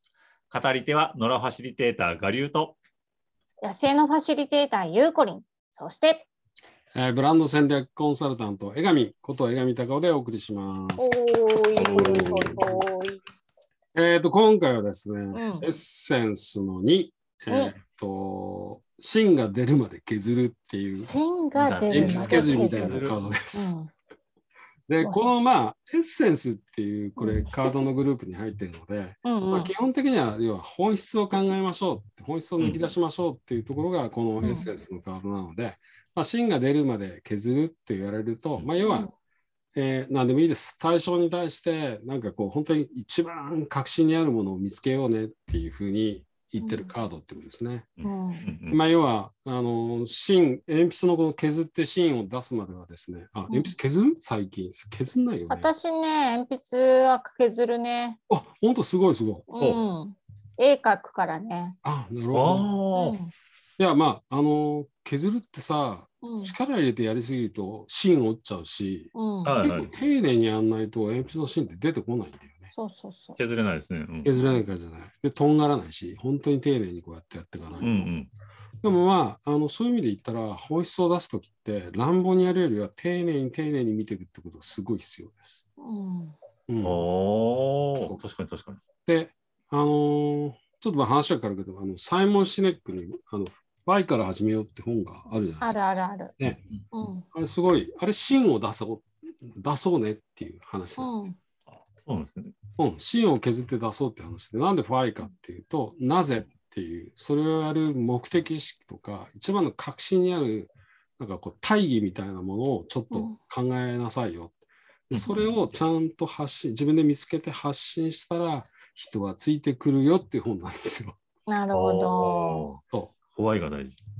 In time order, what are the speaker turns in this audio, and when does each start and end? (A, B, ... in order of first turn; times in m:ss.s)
0:00.5-0:02.8 A
0:03.6-0:06.3 B
0:06.9-0:11.1 C
0:11.0-0:13.2 B
0:11.8-0:12.8 C
0:14.0-0:21.1 C
0:15.3-0:15.7 B
0:20.8-0:23.9 B
0:21.6-0:23.2 A
0:21.9-0:23.8 C
0:24.9-0:39.1 C
0:25.0-0:25.5 B
0:27.2-0:27.5 B
0:29.2-0:29.7 B
0:32.6-0:32.9 A
0:34.4-0:34.7 B
0:38.8-0:39.1 B
0:39.8-0:47.9 C
0:46.6-0:46.9 B
0:48.0-0:48.8 A
0:48.0-0:48.5 B
0:48.7-0:55.7 C
0:53.5-0:53.8 B
0:55.5-0:58.2 B
0:58.3-0:59.4 C
0:59.5-1:01.8 B
1:01.8-1:02.7 C
1:02.3-1:03.2 A
1:03.0-1:03.3 B
1:03.8-1:12.7 C
1:06.2-1:06.6 B
1:09.1-1:09.6 B
1:09.4-1:09.9 A
1:12.7-1:13.4 B
1:13.4-1:14.3 A
1:14.2-1:18.1 C
1:14.3-1:14.6 B
1:17.8-1:18.3 A
1:18.8-1:25.6 C
1:25.8-1:26.4 B
1:26.7-1:27.0 C
1:26.8-1:28.8 A
1:29.1-1:35.8 C
1:35.6-1:36.4 B
1:36.4-1:36.6 C
1:36.9-1:37.3 B
1:37.3-1:41.3 C
1:41.0-1:41.4 B
1:41.7-1:42.5 A
1:42.8-1:54.6 C
1:53.1-1:53.4 B
1:55.1-2:01.2 C
1:55.1-1:55.5 A
2:01.5-2:02.7 B
2:01.7-2:02.8 A
2:03.3-2:04.0 A